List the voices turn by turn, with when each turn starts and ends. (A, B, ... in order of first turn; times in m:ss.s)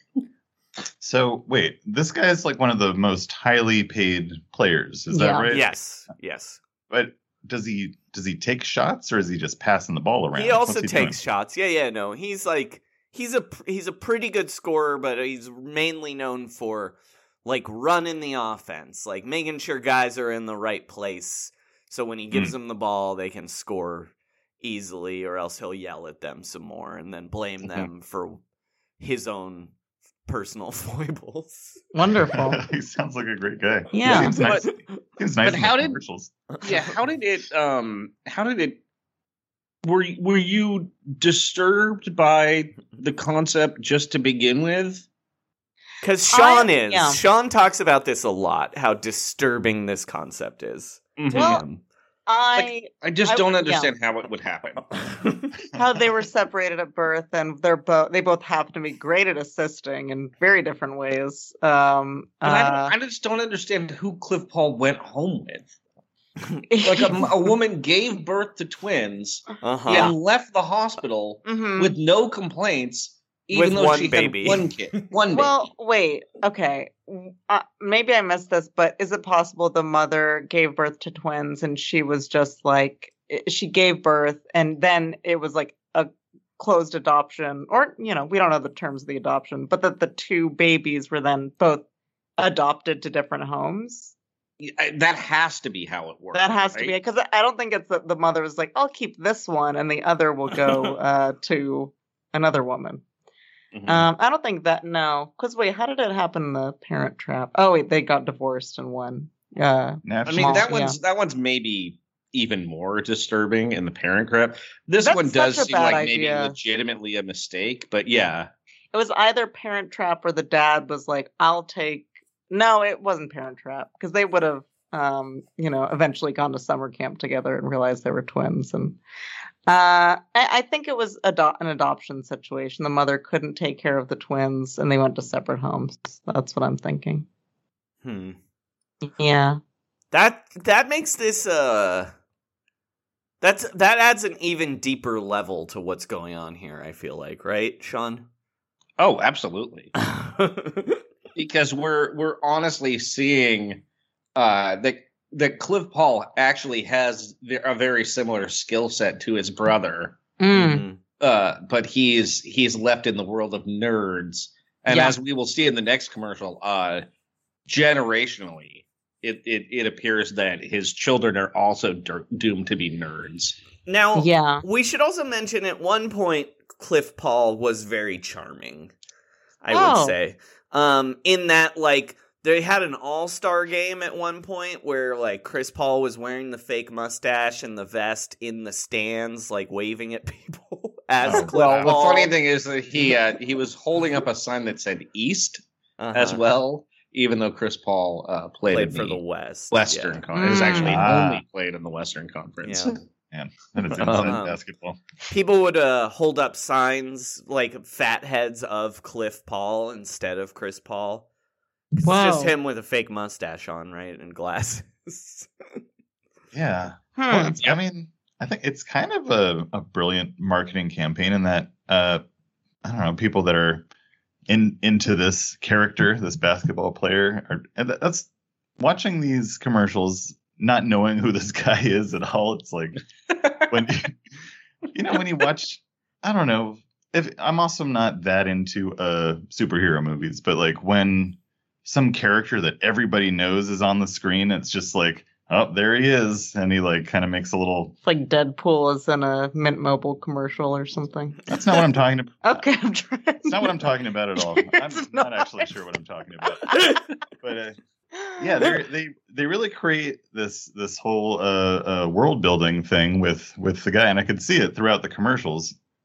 0:01.0-0:05.7 A
0:05.1-0:05.5 B
0:05.5-0:06.6 C
0:06.9-0:11.2 A
0:10.3-0:28.4 C
0:29.0-0:29.7 C
0:30.3-0:31.8 C
0:31.9-0:32.6 B
0:32.3-0:36.3 A
0:33.9-0:34.4 B
0:34.4-0:34.6 D
0:35.4-0:36.0 D
0:36.6-0:38.8 D
0:39.8-0:45.0 D
0:46.0-0:51.8 C
0:46.3-0:47.2 B
0:51.2-0:51.6 D
0:51.3-0:51.6 B
0:52.3-0:53.9 B
0:52.6-0:54.8 D
0:55.0-0:55.4 C
0:55.7-1:02.9 B
1:02.4-1:05.7 D
1:06.7-1:07.5 B
1:06.8-1:15.5 D
1:09.6-1:10.1 C
1:09.9-1:10.1 B
1:11.4-1:12.0 B
1:13.5-1:14.7 C
1:15.3-1:31.8 B
1:32.4-1:34.1 B
1:34.6-1:36.9 D
1:36.3-1:43.0 B
1:43.7-1:44.1 D
1:43.9-1:51.0 B
1:50.0-1:50.7 A
1:50.2-1:58.5 D
1:55.0-1:56.6 B
1:58.9-2:09.0 B
2:09.7-2:17.2 B
2:18.0-2:18.4 C
2:19.0-2:19.6 B
2:20.1-2:22.1 C
2:23.4-2:28.2 C
2:29.0-2:29.9 D
2:30.0-2:31.0 C
2:31.3-2:33.8 D
2:34.4-2:40.2 D
2:40.4-2:40.8 B
2:40.5-2:41.0 C
2:41.2-2:47.1 D
2:44.9-2:45.1 B
2:47.7-2:53.6 D
2:53.9-2:58.9 C
2:54.2-2:54.6 B
2:59.6-3:12.3 C
2:59.7-3:00.1 B
3:11.2-3:11.5 A
3:11.5-3:15.6 D
3:16.0-3:16.4 C
3:16.1-3:19.2 D
3:18.7-3:21.0 C
3:19.7-3:23.0 D
3:20.3-3:21.0 B
3:20.8-3:21.4 A
3:22.6-3:22.9 C
3:23.3-3:25.0 A
3:23.9-3:24.6 C
3:24.0-3:24.4 D
3:25.3-3:31.2 C
3:32.0-3:35.5 C
3:32.0-3:32.6 B
3:36.5-3:42.2 A
3:37.2-3:37.6 B
3:42.8-3:43.8 A
3:44.5-3:48.3 A
3:48.8-3:53.0 A
3:53.7-3:54.1 A
3:54.9-4:08.0 A
4:08.0-4:11.4 B
4:11.5-4:12.6 A
4:12.4-4:13.8 B
4:13.4-4:17.8 A
4:14.4-4:15.7 B
4:18.2-4:18.7 B
4:18.4-4:25.8 A